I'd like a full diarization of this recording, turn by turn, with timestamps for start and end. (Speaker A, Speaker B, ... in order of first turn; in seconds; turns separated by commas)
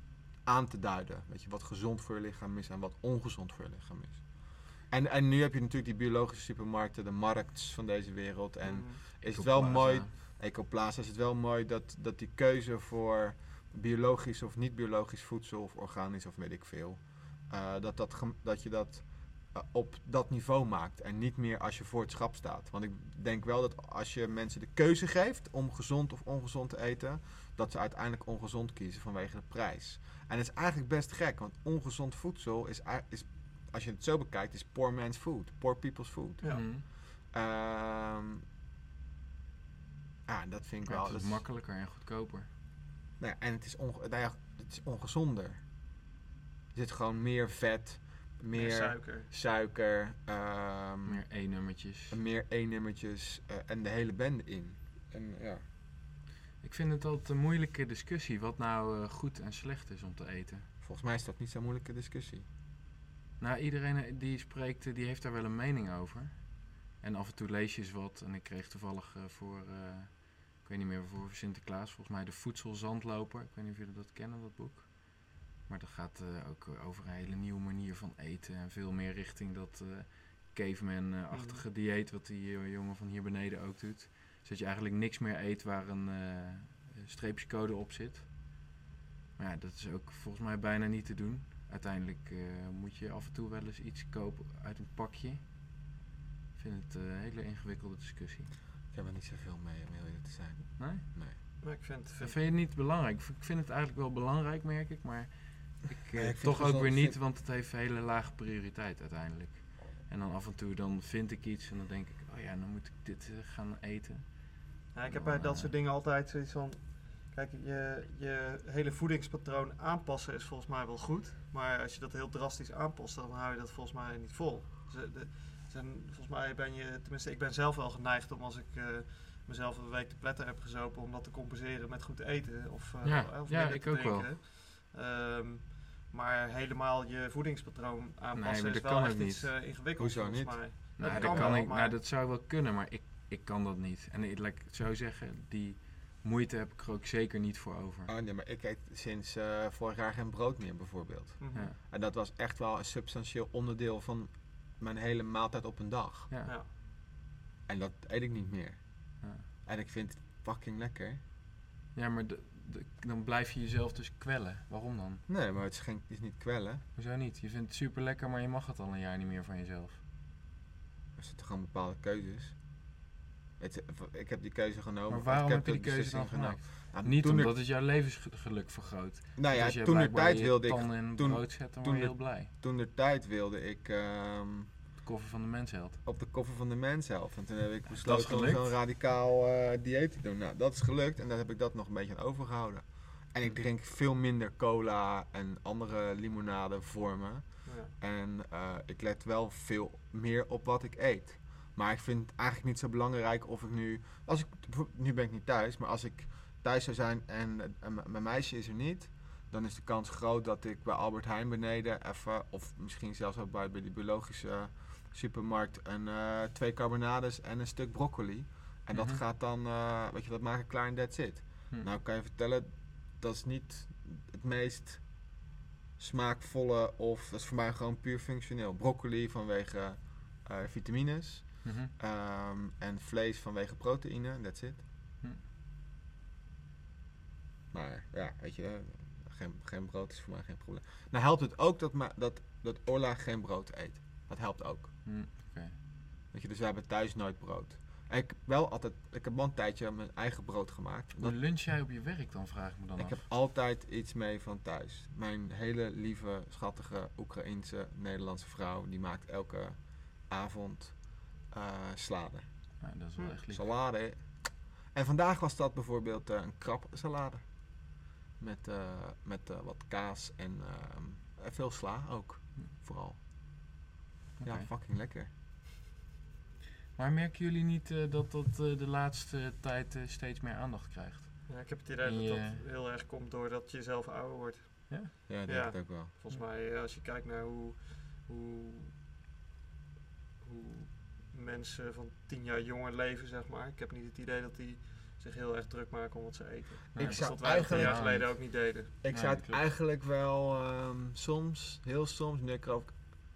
Speaker A: 0.4-4.3, Speaker A: 4.8-38.4, Speaker B: 8.6-9.0, Speaker C: 9.2-10.1, Speaker B: 36.4-36.6, Speaker C: 36.5-36.8, Speaker A: 40.3-41.4, Speaker C: 40.9-42.5, Speaker A: 43.2-45.6, Speaker A: 46.7-51.2, Speaker B: 48.5-49.3, Speaker C: 51.0-52.2, Speaker A: 52.1-55.6, Speaker C: 56.6-60.7, Speaker A: 60.8-62.5, Speaker C: 63.4-88.5, Speaker B: 81.3-81.6, Speaker C: 89.4-95.5, Speaker C: 96.5-98.5, Speaker A: 98.9-101.4, Speaker C: 100.8-101.6, Speaker B: 101.6-102.4, Speaker C: 102.2-114.5, Speaker A: 106.1-107.2, Speaker B: 114.9-141.9, Speaker C: 115.1-115.7, Speaker C: 133.0-134.3, Speaker C: 138.3-139.5, Speaker A: 140.0-141.7, Speaker C: 141.0-148.1, Speaker A: 148.1-156.3, Speaker B: 151.4-151.7, Speaker A: 157.7-158.8, Speaker C: 159.2-159.5, Speaker A: 159.6-161.2, Speaker C: 161.9-165.2, Speaker A: 165.3-166.8, Speaker C: 166.9-170.0, Speaker A: 171.2-172.5, Speaker A: 173.6-177.5, Speaker C: 175.1-182.5, Speaker A: 179.4-184.7, Speaker C: 185.0-186.0, Speaker A: 186.0-225.0, Speaker C: 187.9-188.8, Speaker B: 197.7-197.9, Speaker C: 218.9-219.2, Speaker A: 226.0-234.8, Speaker C: 231.6-231.9, Speaker A: 237.7-244.9, Speaker C: 245.0-245.8, Speaker A: 246.3-251.4, Speaker C: 251.2-253.2, Speaker A: 253.0-262.4, Speaker C: 262.8-263.7, Speaker A: 263.5-264.3, Speaker A: 264.9-267.4, Speaker A: 268.4-273.2, Speaker C: 274.4-274.7, Speaker A: 274.4-275.3, Speaker C: 276.9-282.6, Speaker B: 281.5-288.9, Speaker A: 285.3-286.1, Speaker B: 290.4-298.9, Speaker C: 296.9-298.4, Speaker A: 296.9-298.2, Speaker A: 299.0-303.0, Speaker C: 299.1-299.6